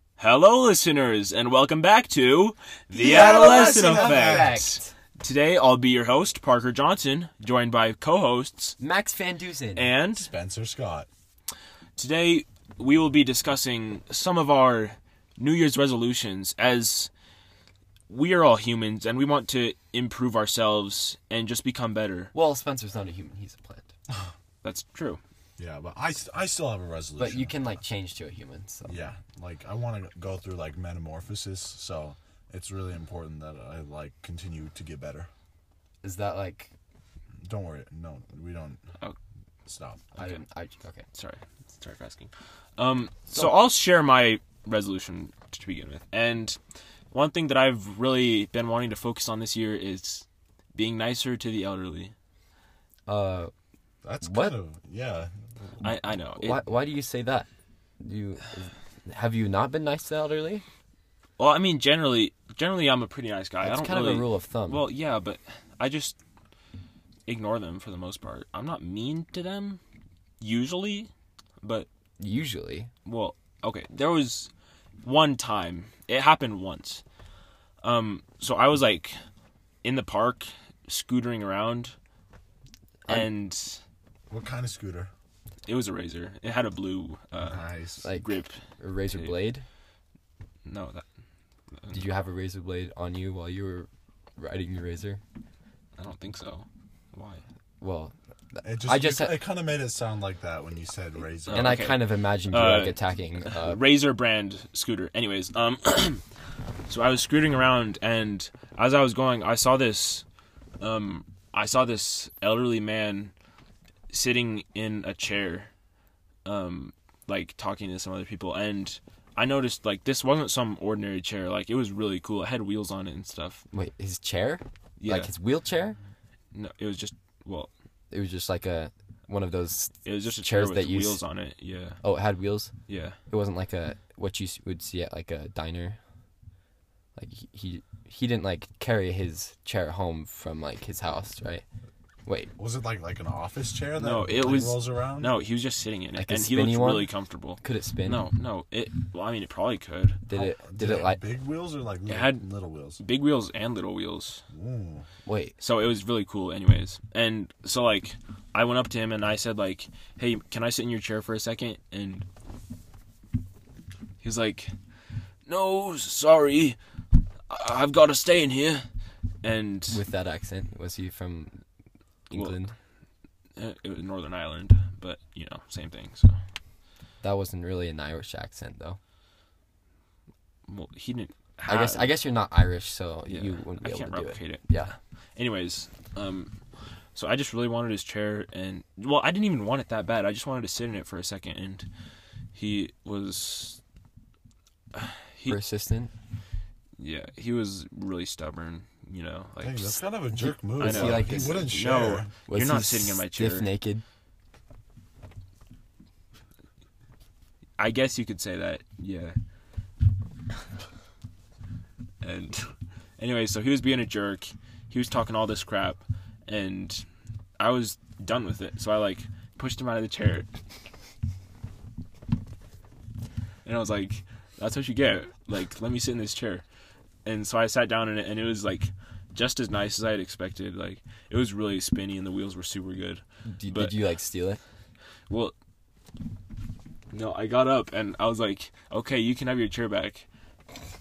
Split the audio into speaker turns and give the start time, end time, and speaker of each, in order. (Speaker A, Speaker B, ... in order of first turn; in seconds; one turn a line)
Speaker A: 0.2-8.8
Speaker B: 3.0-4.6
Speaker C: 3.0-4.9
Speaker C: 8.8-9.9
Speaker A: 9.8-10.3
Speaker B: 10.1-11.1
Speaker A: 12.0-17.1
Speaker A: 18.1-22.3
Speaker C: 22.3-23.9
Speaker A: 24.6-25.2
Speaker B: 25.6-27.6
Speaker C: 27.2-29.1
Speaker B: 28.9-35.3
Speaker C: 36.0-36.7
Speaker B: 37.4-38.8
Speaker B: 39.7-40.1
Speaker C: 40.1-41.1
Speaker A: 41.1-46.6
Speaker C: 43.4-43.6
Speaker A: 47.1-52.1
Speaker C: 53.1-53.5
Speaker B: 54.0-56.0
Speaker C: 54.2-54.6
Speaker A: 55.8-56.6
Speaker C: 56.4-57.5
Speaker C: 58.0-60.6
Speaker A: 61.4-66.2
Speaker C: 63.6-64.9
Speaker A: 67.3-69.8
Speaker A: 70.4-71.1
Speaker A: 71.6-71.9
Speaker C: 72.2-72.9
Speaker A: 73.1-74.5
Speaker A: 75.0-77.0
Speaker A: 77.8-79.2
Speaker A: 79.8-81.9
Speaker A: 83.1-83.8
Speaker B: 84.3-85.1
Speaker A: 85.7-89.4
Speaker B: 87.4-88.0
Speaker C: 88.0-89.7
Speaker A: 90.7-91.0
Speaker A: 91.8-92.1
Speaker C: 91.9-95.2
Speaker A: 96.0-97.4
Speaker C: 97.8-99.5
Speaker B: 98.6-101.8
Speaker A: 101.5-106.2
Speaker C: 101.5-103.8
Speaker A: 106.9-110.2
Speaker A: 110.8-113.3
Speaker A: 114.1-115.7
Speaker A: 116.5-123.6
Speaker C: 123.7-126.0
Speaker A: 125.0-125.3
Speaker A: 126.5-127.7
Speaker C: 128.1-131.2
Speaker A: 130.0-132.0
Speaker C: 132.0-132.7
Speaker A: 132.9-133.2
Speaker C: 133.3-136.0
Speaker C: 137.2-141.7
Speaker C: 142.3-142.5
Speaker B: 142.6-145.4
Speaker A: 143.9-150.2
Speaker C: 146.2-148.3
Speaker C: 150.3-151.2
Speaker B: 150.3-153.0
Speaker A: 152.1-152.5
Speaker A: 153.0-154.4
Speaker B: 154.5-155.1
Speaker C: 155.2-155.5
Speaker A: 155.6-162.3
Speaker A: 164.2-164.7
Speaker A: 165.5-166.8
Speaker A: 167.5-168.9
Speaker A: 169.4-170.0
Speaker C: 169.9-171.6
Speaker C: 172.3-172.8
Speaker A: 172.3-172.6
Speaker A: 173.6-176.4
Speaker C: 177.2-179.0
Speaker A: 180.7-182.1
Speaker C: 181.7-184.9
Speaker A: 183.3-186.5
Speaker A: 187.2-191.9
Speaker A: 192.6-193.8
Speaker A: 194.9-195.6
Speaker C: 195.5-196.1
Speaker A: 197.0-200.0
Speaker B: 199.6-202.3
Speaker C: 200.3-201.7
Speaker A: 200.8-203.7
Speaker C: 202.5-204.0
Speaker A: 207.8-209.4
Speaker A: 212.2-217.1
Speaker A: 217.6-220.5
Speaker A: 223.7-226.6
Speaker A: 227.2-234.0
Speaker C: 233.5-234.6
Speaker A: 235.3-235.5
Speaker A: 237.1-240.3